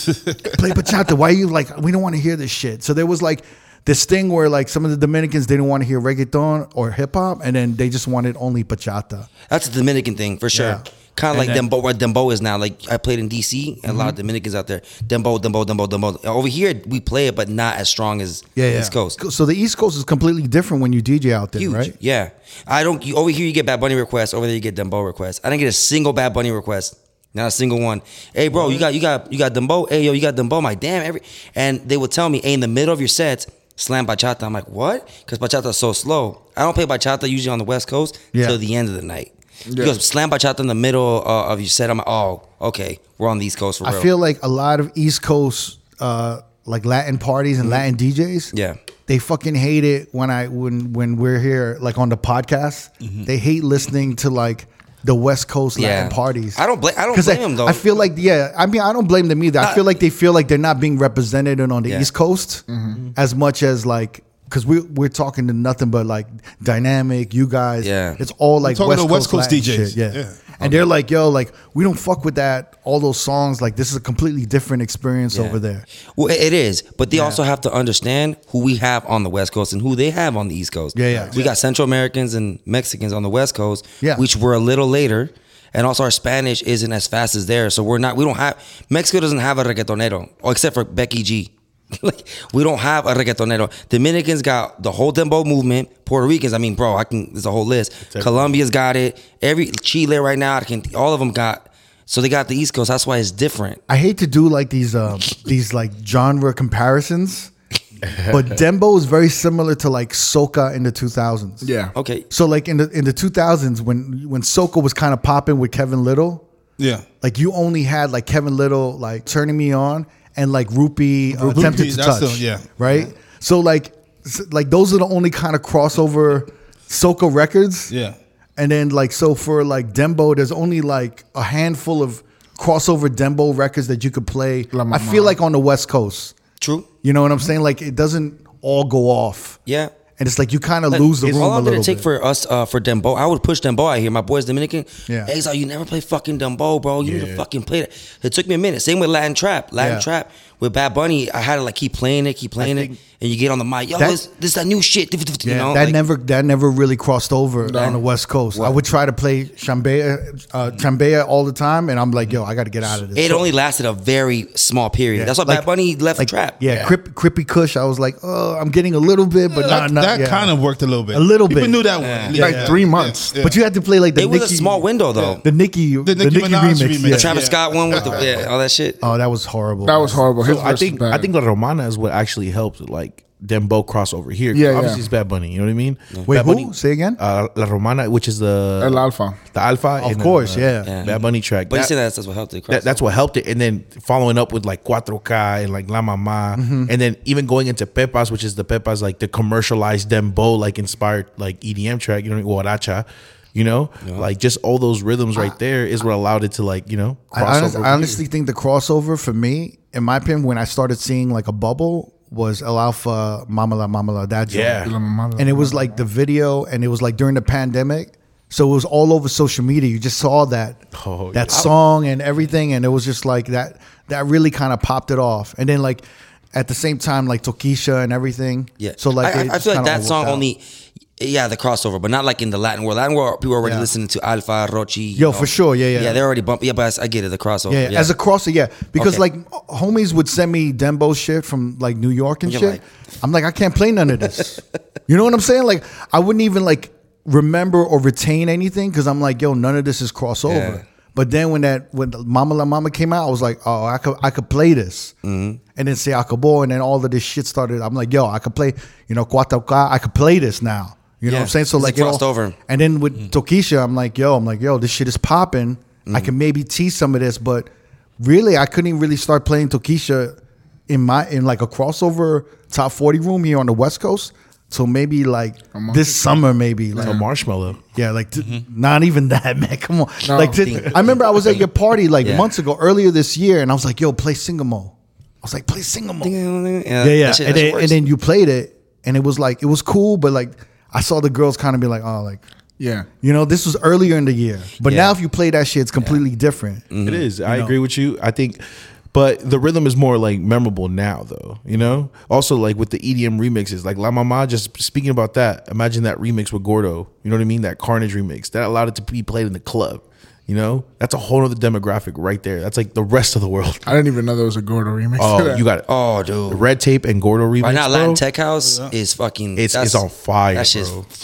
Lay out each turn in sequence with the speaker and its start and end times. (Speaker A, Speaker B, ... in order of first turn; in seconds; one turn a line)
Speaker A: 0.4-9.3
Speaker B: 9.5-19.2
Speaker A: 10.5-11.6
Speaker A: 13.9-14.1
Speaker A: 18.6-21.9
Speaker B: 21.6-44.1
Speaker A: 38.3-38.6
Speaker C: 39.7-40.0
Speaker A: 43.8-48.5
Speaker A: 49.1-56.6
Speaker B: 55.8-57.8
Speaker A: 57.1-62.6
Speaker C: 62.7-63.0
Speaker A: 63.1-75.8
Speaker B: 67.8-68.2
Speaker D: 68.6-70.4
Speaker B: 75.3-75.6
Speaker B: 76.2-103.8
Speaker A: 77.1-77.4
Speaker A: 80.9-81.3
Speaker E: 98.1-98.5
Speaker A: 103.9-107.5
Speaker E: 108.0-108.6
Speaker A: 108.3-111.7
Speaker C: 111.6-111.9
Speaker B: 111.9-112.2
Speaker A: 112.3-116.4
Speaker D: 116.8-117.0
Speaker A: 117.2-127.9
Speaker C: 121.4-121.9
Speaker D: 121.5-122.7
Speaker D: 127.9-128.2
Speaker A: 128.6-136.3
Speaker C: 134.7-135.4
Speaker B: 136.6-136.9
Speaker A: 137.0-139.6
Speaker A: 140.2-142.1
Speaker B: 140.9-156.0
Speaker A: 145.1-145.3
Speaker E: 147.0-147.4
Speaker A: 149.8-150.1
Speaker E: 152.6-152.9
Speaker A: 153.9-154.2
Speaker A: 155.4-163.5
Speaker C: 157.6-158.0
Speaker B: 158.5-158.8
Speaker B: 163.1-166.6
Speaker A: 165.1-165.7
Speaker A: 166.2-170.5
Speaker E: 166.7-166.9
Speaker D: 169.5-173.6
Speaker A: 171.1-171.8
Speaker B: 172.0-172.4
Speaker C: 172.3-173.3
Speaker A: 172.4-172.8
Speaker A: 173.4-174.8
Speaker B: 174.2-175.4
Speaker A: 175.4-177.4
Speaker D: 176.0-178.3
Speaker B: 177.1-179.0
Speaker A: 179.0-180.2
Speaker C: 179.8-181.3
Speaker E: 180.4-191.9
Speaker C: 184.5-185.0
Speaker A: 186.3-187.2
Speaker C: 188.8-189.4
Speaker A: 190.0-190.9
Speaker B: 190.8-193.0
Speaker E: 192.7-208.2
Speaker A: 196.5-196.9
Speaker B: 204.0-204.3
Speaker A: 207.3-214.8
Speaker E: 214.5-214.9
Speaker C: 214.8-216.0
Speaker A: 215.4-230.4
Speaker E: 220.9-221.6
Speaker B: 228.8-230.6
Speaker B: 231.2-238.1
Speaker A: 233.6-233.9
Speaker A: 235.2-236.2
Speaker A: 237.7-255.1
Speaker B: 238.9-239.2
Speaker B: 242.4-242.8
Speaker B: 250.4-250.8
Speaker B: 255.2-255.6
Speaker A: 255.8-267.7
Speaker B: 261.2-262.6
Speaker A: 268.2-270.4
Speaker A: 270.9-277.2
Speaker C: 275.7-276.2
Speaker E: 276.9-277.8
Speaker A: 277.9-286.3
Speaker C: 280.2-280.6
Speaker B: 280.6-281.6
Speaker B: 282.2-282.5
Speaker B: 286.2-288.0
Speaker A: 287.0-292.4
Speaker C: 292.8-293.1
Speaker A: 293.2-296.9
Speaker B: 294.8-295.1
Speaker B: 296.9-297.2
Speaker E: 297.0-314.0
Speaker A: 297.4-297.7
Speaker C: 313.9-315.6
Speaker E: 315.2-315.9
Speaker B: 315.9-316.6
Speaker E: 316.5-318.2
Speaker B: 317.6-321.0
Speaker D: 318.6-318.9
Speaker E: 319.6-321.0